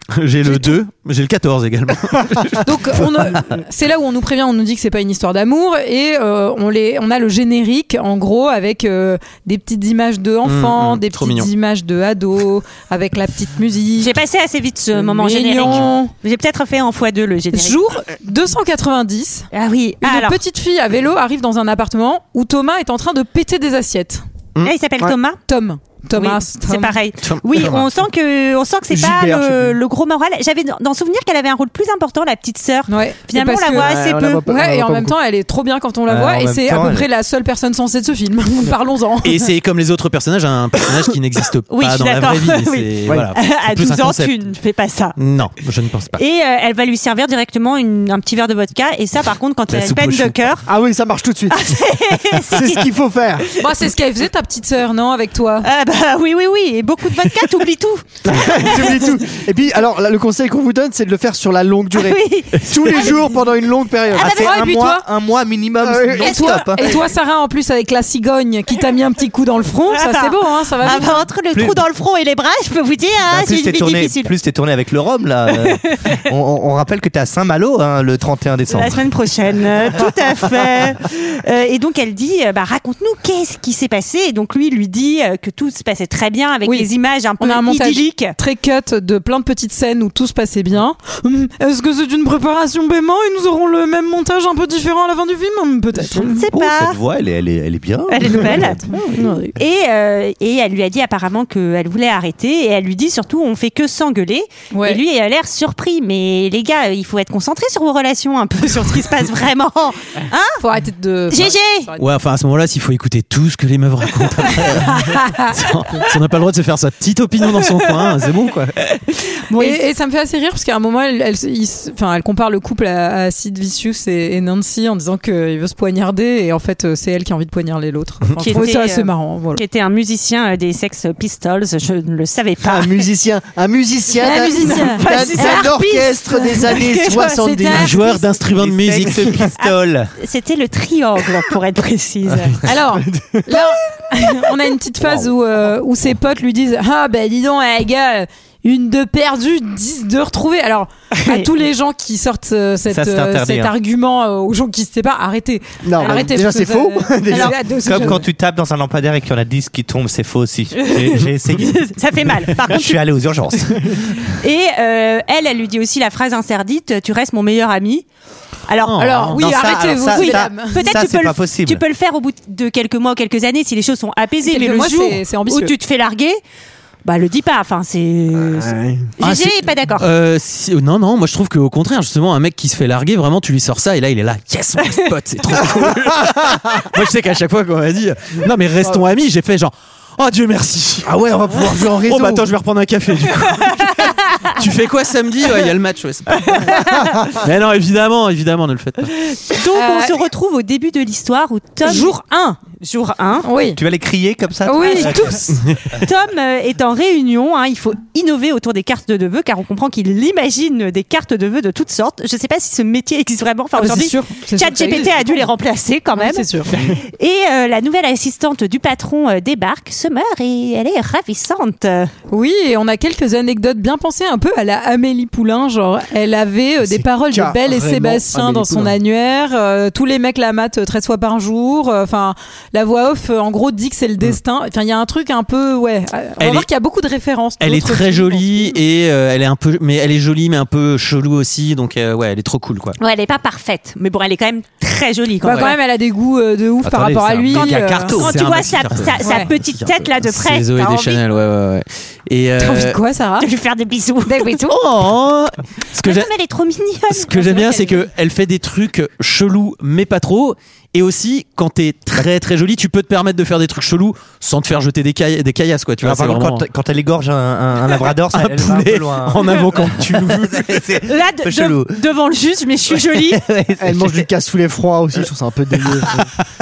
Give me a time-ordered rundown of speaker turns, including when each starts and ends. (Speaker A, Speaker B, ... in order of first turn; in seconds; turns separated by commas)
Speaker A: 0.1-3.2, Speaker B: 2.6-14.1, Speaker A: 10.4-11.5, Speaker C: 14.0-17.8, Speaker B: 14.9-16.1, Speaker B: 17.5-19.5, Speaker C: 19.5-20.4, Speaker B: 20.0-24.2, Speaker C: 24.6-25.4, Speaker B: 25.5-27.0, Speaker C: 26.1-34.5, Speaker A: 27.2-27.9, Speaker D: 28.9-29.8, Speaker B: 32.9-33.9, Speaker D: 33.7-35.1, Speaker B: 34.5-39.5, Speaker E: 36.1-37.1, Speaker A: 39.2-44.4, Speaker C: 41.7-45.2, Speaker A: 45.2-46.2, Speaker C: 46.2-50.7, Speaker A: 49.7-50.4, Speaker D: 50.7-51.8, Speaker C: 51.5-52.9, Speaker D: 52.3-53.5, Speaker C: 53.6-53.9, Speaker B: 53.6-55.7, Speaker C: 55.6-59.0, Speaker D: 58.2-64.3, Speaker C: 61.9-63.3, Speaker E: 64.1-66.9, Speaker B: 64.2-65.1, Speaker C: 64.2-64.6, Speaker D: 65.8-66.2, Speaker B: 66.2-71.2, Speaker C: 66.2-67.0, Speaker C: 69.9-74.3, Speaker E: 71.5-71.8, Speaker E: 73.3-79.0, Speaker C: 75.6-76.2, Speaker C: 78.7-88.3, Speaker B: 86.7-96.4, Speaker C: 96.2-97.0, Speaker E: 96.5-98.8, Speaker C: 98.1-98.9, Speaker B: 98.9-99.5, Speaker C: 99.5-110.6, Speaker B: 104.7-105.0, Speaker B: 110.6-112.0, Speaker C: 111.3-111.9, Speaker A: 112.0-118.8, Speaker B: 114.8-115.5, Speaker C: 119.1-119.8, Speaker B: 119.6-129.6, Speaker C: 128.4-133.1, Speaker D: 132.6-137.9, Speaker B: 134.2-138.0, Speaker C: 134.5-136.1, Speaker C: 136.6-142.8, Speaker A: 137.7-139.4, Speaker E: 138.6-140.1, Speaker B: 142.6-158.2, Speaker D: 143.1-143.6, Speaker C: 151.2-151.5, Speaker E: 152.9-153.7, Speaker D: 155.8-157.6, Speaker C: 156.0-156.3, Speaker E: 157.8-161.9, Speaker C: 160.8-163.0, Speaker E: 162.6-164.2, Speaker C: 164.2-168.1, Speaker C: 168.7-176.4, Speaker A: 168.9-169.3, Speaker B: 169.0-170.9, Speaker E: 169.3-171.8, Speaker B: 174.4-175.7, Speaker C: 177.0-180.1, Speaker D: 178.6-179.1, Speaker A: 179.2-191.1, Speaker D: 191.1-192.4, Speaker E: 191.3-191.9, Speaker A: 191.7-196.6, Speaker C: 193.6-194.5, Speaker C: 196.4-197.2, Speaker A: 197.4-199.1, Speaker C: 199.2-202.2, Speaker B: 199.7-200.2, Speaker B: 201.8-202.6, Speaker C: 202.7-203.5, Speaker B: 203.4-203.8, Speaker E: 203.8-206.1, Speaker B: 204.7-205.6, Speaker C: 204.8-205.4, Speaker C: 206.0-222.1, Speaker B: 213.8-215.4, Speaker B: 216.2-216.7, Speaker B: 222.3-238.8, Speaker D: 226.8-229.0, Speaker A: 236.4-236.7, Speaker A: 237.6-243.0, Speaker C: 243.0-245.8, Speaker B: 245.4-248.2, Speaker E: 246.8-248.5, Speaker A: 247.5-253.0, Speaker C: 248.2-251.2, Speaker B: 249.2-249.5, Speaker B: 252.6-253.5, Speaker C: 253.4-254.5, Speaker B: 254.3-254.8, Speaker A: 254.7-256.3, Speaker C: 256.0-258.0, Speaker A: 257.1-266.6, Speaker E: 266.0-272.0, Speaker A: 268.3-270.9, Speaker C: 271.0-273.4, Speaker E: 272.9-274.3, Speaker D: 273.8-276.3